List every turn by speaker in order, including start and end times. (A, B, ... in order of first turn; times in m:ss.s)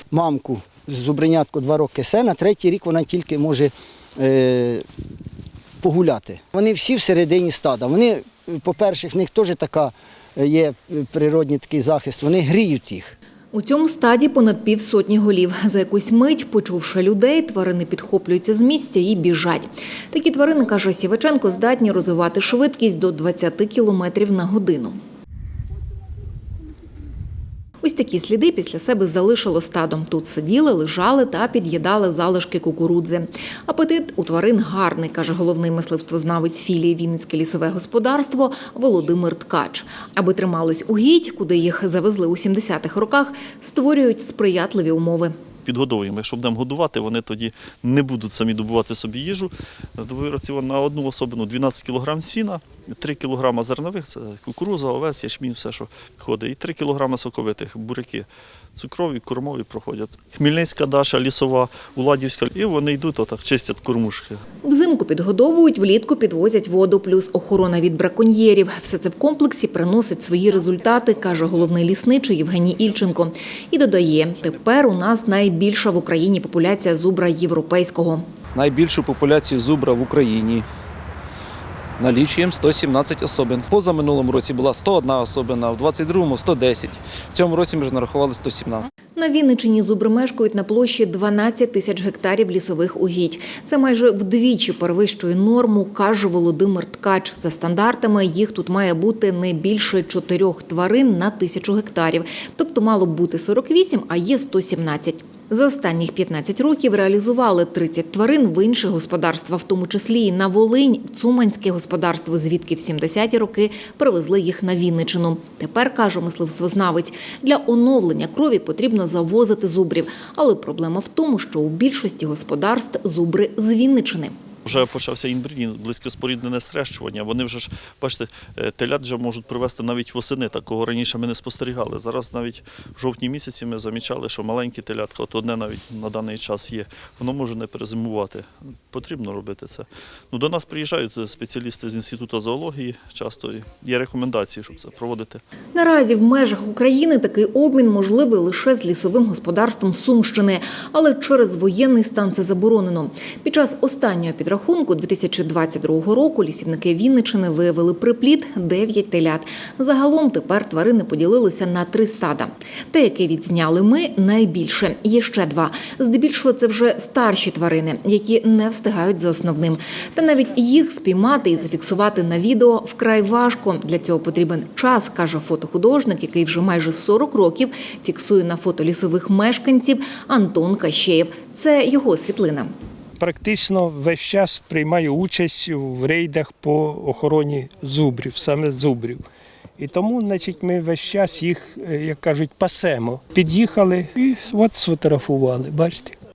0:00.1-0:04.8 A
0:05.8-0:13.1 A
0:13.5-0:25.0 B
0:27.8-0:45.3 B
0:45.6-1:04.4 C
1:04.6-1:18.2 B
1:18.5-1:20.6 D
1:22.0-1:28.9 D
1:29.2-2:04.3 B
2:04.6-2:25.4 C
2:25.7-3:02.7 B
3:03.2-3:09.2 E
3:09.8-3:16.2 E